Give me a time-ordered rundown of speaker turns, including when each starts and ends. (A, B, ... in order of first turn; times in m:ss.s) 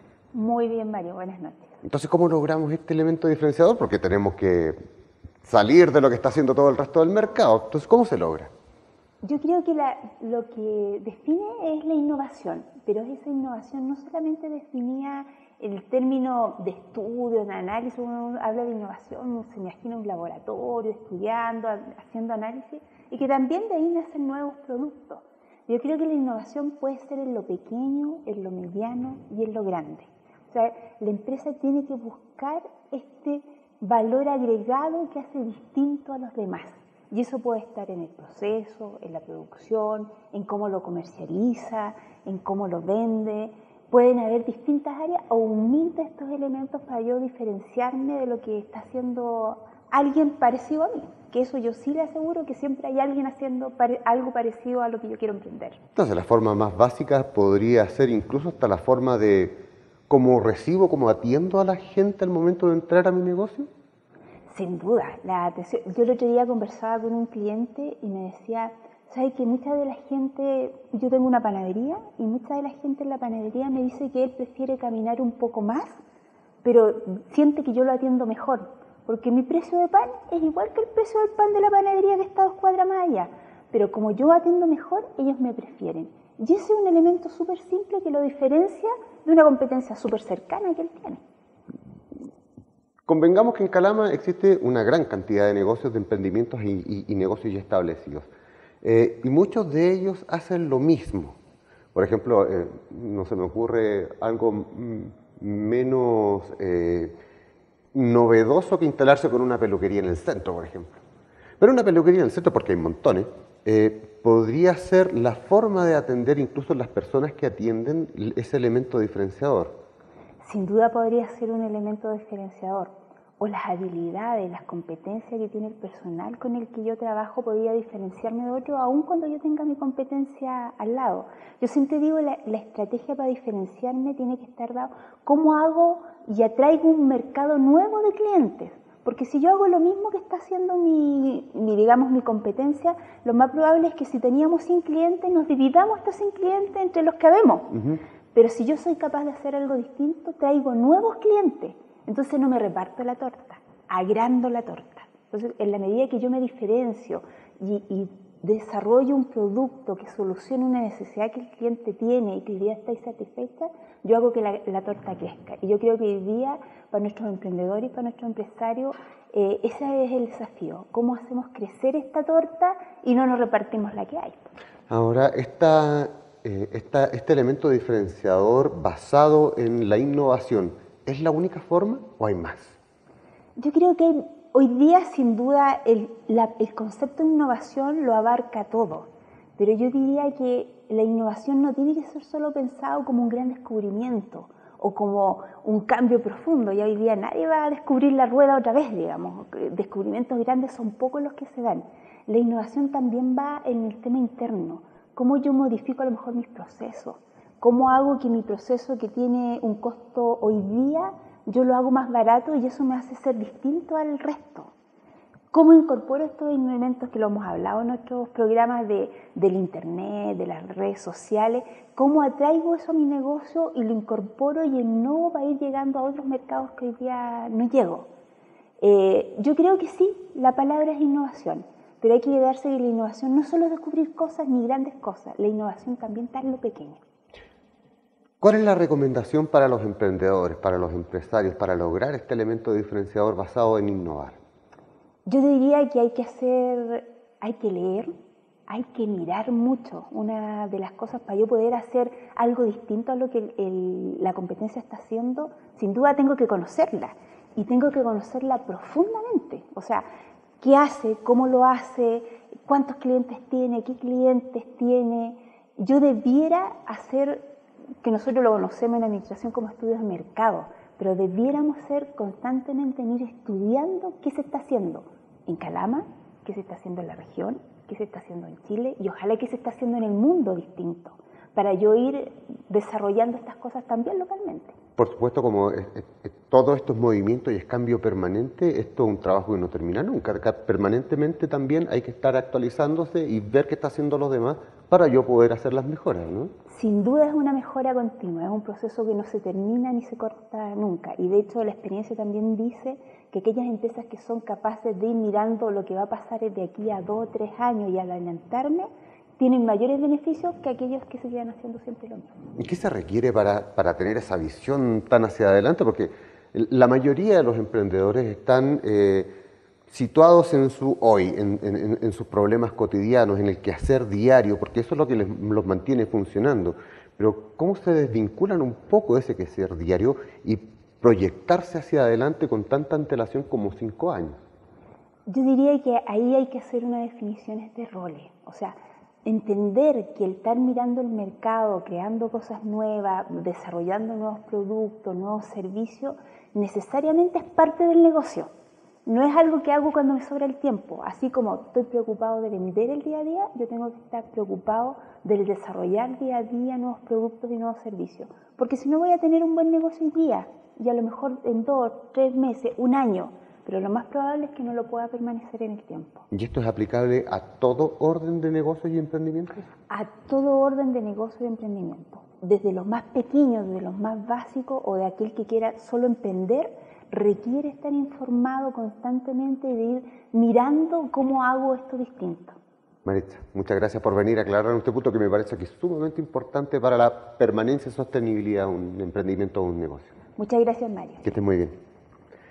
0:00.3-0:01.7 A
0:01.8-0:04.8 B
0:05.4-0:08.5 B
0:09.2-0:55.8 A
0:56.0-0:59.6 B
1:00.1-1:03.7 B
1:04.5-1:16.0 A
1:16.6-1:31.2 A
1:33.1-1:38.3 B
1:38.8-1:41.4 B
1:42.0-1:47.1 B
1:47.9-1:50.9 B
1:51.6-1:59.8 B
2:00.4-2:27.7 A
2:27.7-2:28.0 B
2:28.3-2:54.5 A
2:54.9-3:02.8 B
3:03.6-3:34.7 A
3:35.5-3:48.1 A
3:48.8-3:57.0 A
3:58.4-4:04.4 B
4:05.3-4:08.1 A
4:08.7-4:20.1 A
4:20.6-4:27.4 A
4:28.0-4:44.8 A
4:45.0-4:56.5 B
4:56.7-5:12.3 A
5:12.6-5:19.3 B
5:19.9-5:34.4 B
5:35.3-5:48.5 A
5:49.1-6:06.2 A
6:06.3-6:09.6 B
6:09.9-6:22.6 A
6:23.0-6:30.1 B
6:30.4-6:31.3 A
6:31.2-6:31.8 B